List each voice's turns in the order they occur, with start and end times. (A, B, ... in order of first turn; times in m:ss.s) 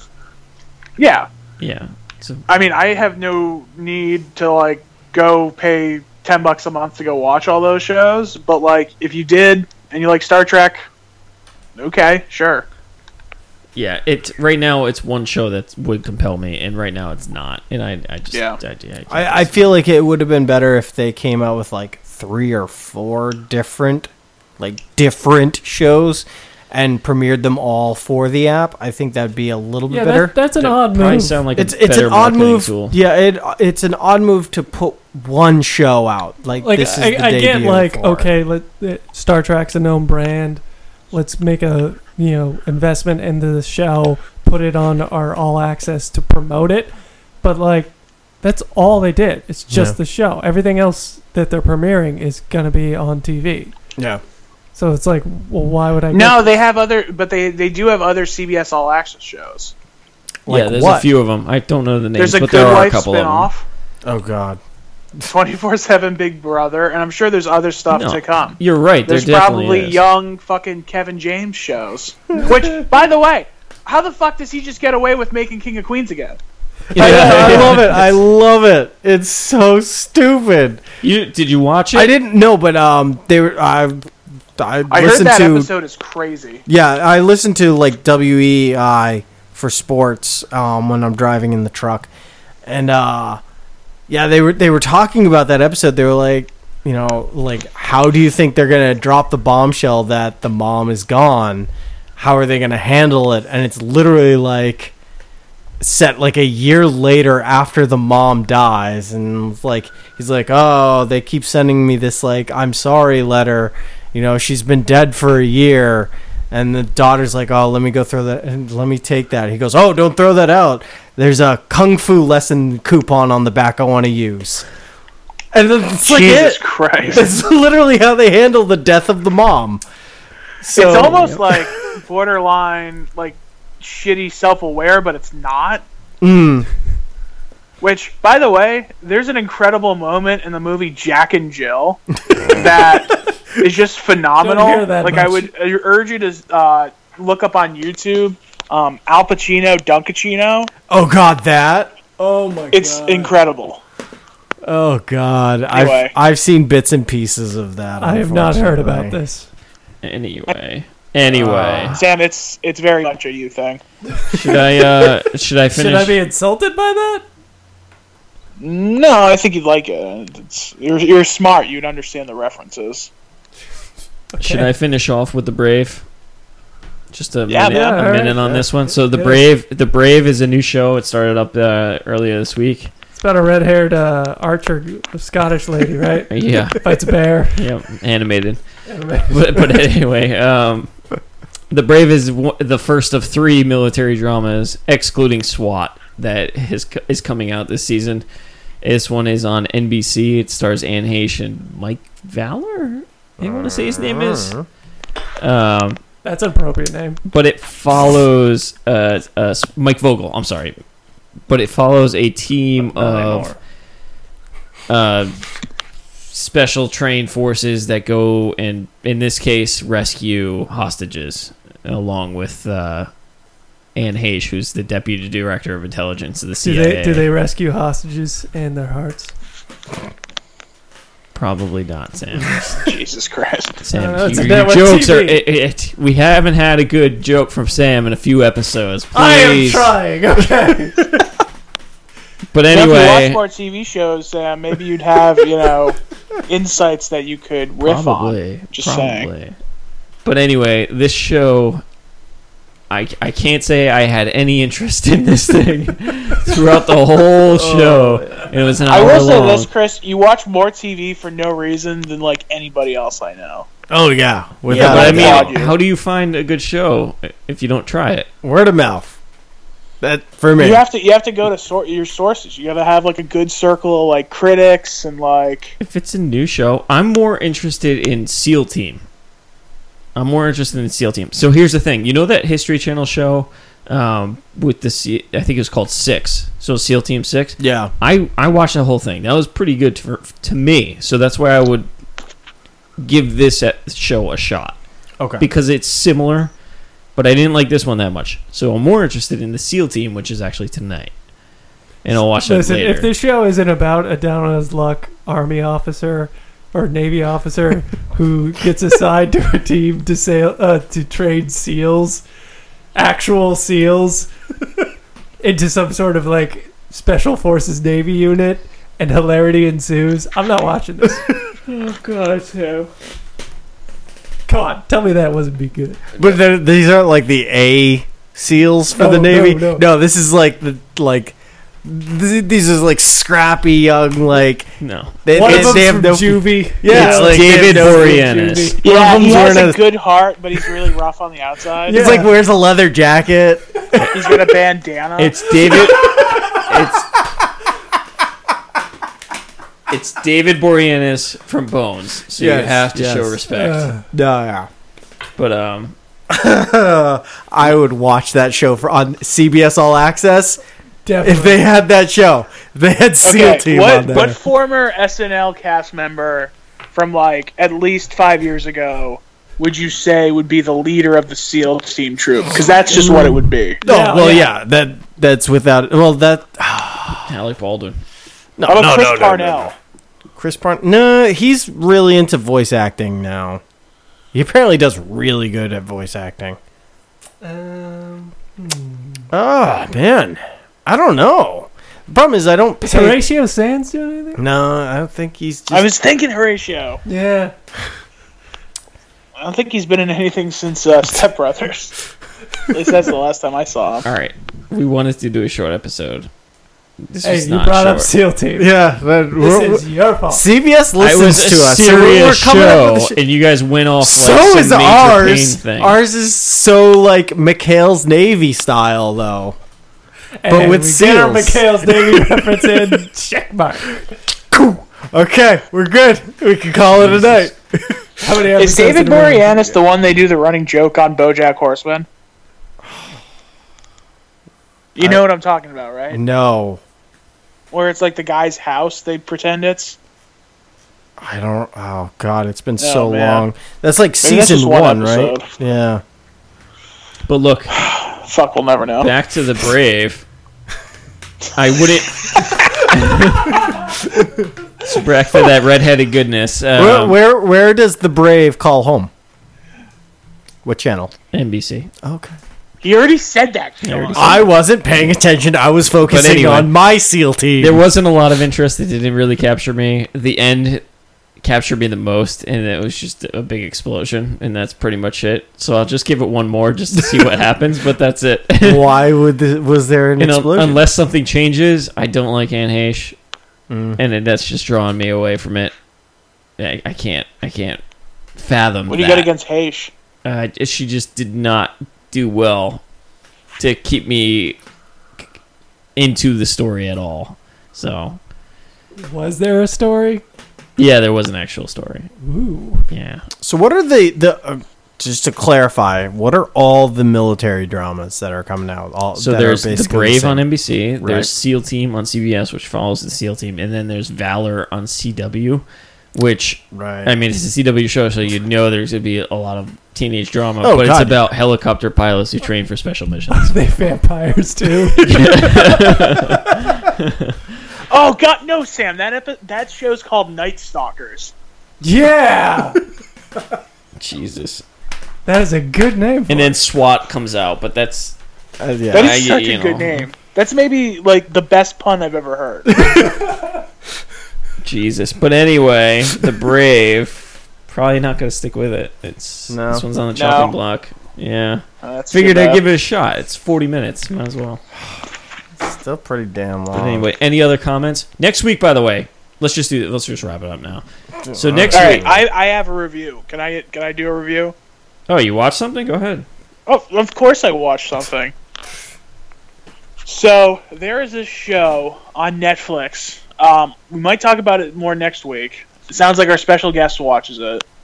0:01.0-0:01.3 A
0:01.6-0:02.5 B
0:02.5-0:10.9 A
0:11.8-0:12.7 A
0:13.8-0:19.7 B
0:18.3-0:18.6 A
0:19.1-0:30.4 C
0:29.9-0:31.4 D
0:30.6-0:33.0 B
0:31.6-0:38.3 C
0:36.6-0:53.7 D
0:49.7-0:50.0 C
0:54.8-0:56.5 D
0:56.1-0:59.7 A
1:00.5-1:01.1 C
1:00.5-1:03.5 B
1:02.2-1:03.6 A
1:04.0-1:04.6 C
1:05.2-1:16.4 A
1:07.9-1:10.0 B
1:16.9-1:18.2 B
1:16.9-1:20.8 C
1:17.0-1:17.7 A
1:21.0-1:22.1 B
1:21.9-1:25.7 C
1:24.9-1:26.6 A
1:26.7-1:32.1 C
1:32.6-1:33.4 C
1:34.1-1:45.0 C
1:45.8-2:04.7 C
2:05.5-2:09.8 C
2:06.0-2:07.3 A
2:10.6-2:11.6 C
2:10.7-2:15.8 A
2:16.2-2:16.7 C
2:17.8-2:30.7 A
2:22.3-2:22.6 C
2:24.4-2:25.5 D
2:30.9-2:33.3 C
2:32.7-2:33.8 A
2:34.6-2:39.2 C
2:35.7-2:36.2 A
2:38.0-2:39.5 D
2:40.0-2:42.0 B
2:41.3-2:42.0 C
2:41.9-2:43.8 A
2:44.2-2:44.8 D
2:44.3-2:46.2 B
2:45.7-2:47.3 D
2:48.6-2:53.1 A
2:54.3-2:54.7 D
2:54.4-2:56.1 B
2:57.1-3:02.9 B
2:57.5-2:58.1 A
2:57.7-2:59.5 D
3:03.1-3:07.7 D
3:06.3-3:06.8 B
3:07.6-3:08.6 B
3:08.9-3:09.7 D
3:09.3-3:10.9 B
3:11.7-3:18.2 B
3:18.8-3:24.6 B
3:23.4-3:24.7 C
3:25.4-3:26.0 B
3:26.2-3:27.2 D
3:27.2-3:30.8 B
3:31.5-3:33.5 B
3:32.9-3:33.5 D
3:34.9-3:35.4 B
3:36.3-3:43.1 B
3:44.0-3:47.3 B
3:46.6-3:49.3 D
3:51.4-3:52.6 B
3:52.6-3:53.8 A
3:53.8-3:59.9 B
3:53.9-3:55.4 D
3:59.1-4:01.1 D
4:02.5-4:03.4 B
4:02.7-4:09.3 A
4:07.8-4:09.6 B
4:10.2-4:11.8 B
4:12.9-4:19.7 B
4:17.5-4:18.5 C
4:18.9-4:23.7 A
4:23.9-4:25.6 C
4:24.7-4:25.8 A
4:24.7-4:28.3 B
4:28.4-4:29.2 C
4:30.0-4:30.8 C
4:30.6-4:35.8 A
4:35.8-4:39.0 B
4:40.2-4:51.9 B
4:47.6-4:47.9 C
4:53.0-4:54.8 B
4:55.2-4:55.5 C
4:55.4-4:56.5 B
4:57.2-5:01.1 B
5:02.0-5:03.1 B
5:02.1-5:12.2 D
5:13.0-5:14.3 D
5:15.4-5:21.3 D
5:21.7-5:22.9 B
5:24.5-5:26.1 D
5:26.2-5:34.7 C
5:29.0-5:29.8 D
5:34.8-5:35.7 B
5:35.2-5:38.2 C
5:35.3-5:38.8 D
5:36.9-5:38.8 B
5:38.8-5:39.9 C
5:38.8-5:42.0 A
5:41.9-5:42.3 D
5:41.9-5:43.8 C
5:44.1-5:45.7 A
5:45.2-5:47.1 B
5:49.9-5:53.9 B
5:52.4-5:53.4 C
5:53.5-5:54.0 D
5:54.1-5:54.7 C
5:55.4-5:56.0 B
5:56.3-6:00.6 C
6:01.0-6:01.6 D
6:01.2-6:04.4 C
6:03.2-6:13.8 A
6:13.0-6:13.3 D
6:13.8-6:14.5 D
6:13.8-6:17.3 C
6:17.3-6:18.0 B
6:18.6-6:19.7 C
6:18.7-6:19.7 A
6:20.4-6:23.6 C
6:24.3-6:26.6 C
6:27.4-6:29.3 D
6:29.3-6:33.2 C
6:32.8-6:34.4 D
6:34.4-6:35.9 C
6:35.7-6:37.0 A
6:37.0-6:37.6 D
6:39.4-6:41.9 A
6:42.7-6:44.1 A
6:44.0-6:46.3 B
6:47.0-6:48.1 B
6:47.2-6:48.7 D
6:48.6-6:53.2 C
6:49.4-6:50.4 D
6:51.0-6:56.0 B
6:54.0-6:59.6 C
7:00.4-7:04.1 D
7:00.5-7:03.0 C
7:04.5-7:08.1 C
7:07.0-7:07.4 B
7:08.2-7:09.8 D
7:08.6-7:12.1 A
7:12.8-7:13.2 C
7:15.0-7:16.2 A
7:15.0-7:15.2 C
7:16.1-7:16.8 C
7:17.7-7:20.0 A
7:21.2-7:26.0 C
7:22.8-7:23.5 A
7:24.2-7:25.5 A
7:27.3-7:27.8 B
7:27.7-7:29.1 A
7:29.0-7:30.3 B
7:31.6-7:33.8 B
7:34.8-7:37.2 B
7:36.8-7:39.1 C
7:40.6-7:41.1 C
7:41.3-7:41.9 B
7:42.0-7:42.4 C
7:42.8-7:44.4 A
7:43.8-7:45.0 B
7:44.2-7:47.8 C
7:46.0-7:46.7 B
7:47.6-7:50.8 B
7:51.4-7:58.8 B
7:57.0-7:57.3 C
7:58.6-8:00.8 C
8:00.2-8:03.2 B
8:03.7-8:04.0 C
8:04.0-8:05.7 B
8:06.6-8:07.8 B
8:08.4-8:09.3 B
8:08.9-8:09.9 A
8:10.2-8:12.8 B
8:13.6-8:14.6 B
8:16.0-8:18.2 B
8:19.0-8:20.2 D
8:20.8-8:22.1 B
8:22.2-8:22.9 D
8:22.9-8:23.2 B
8:23.4-8:30.5 C
8:29.2-8:43.6 B
8:31.0-8:31.3 C
8:36.7-8:37.1 C
8:40.6-8:41.2 C
8:43.3-8:46.4 D
8:45.0-8:47.4 B
8:47.9-8:51.3 A
8:51.8-8:52.8 D
8:54.0-8:54.6 B
8:55.2-8:56.6 D
8:56.3-8:58.2 B
8:58.6-8:59.2 C
8:58.9-9:00.0 B
8:58.9-9:02.8 A
9:02.7-9:03.3 C
9:04.6-9:14.6 B
9:09.5-9:09.8 C
9:10.1-9:10.6 A
9:11.8-9:12.6 A
9:15.6-9:17.1 C
9:16.7-9:22.1 B
9:21.2-9:22.2 C
9:21.7-9:24.6 A
9:25.1-9:26.3 B
9:26.7-9:28.3 A
9:30.1-9:37.6 A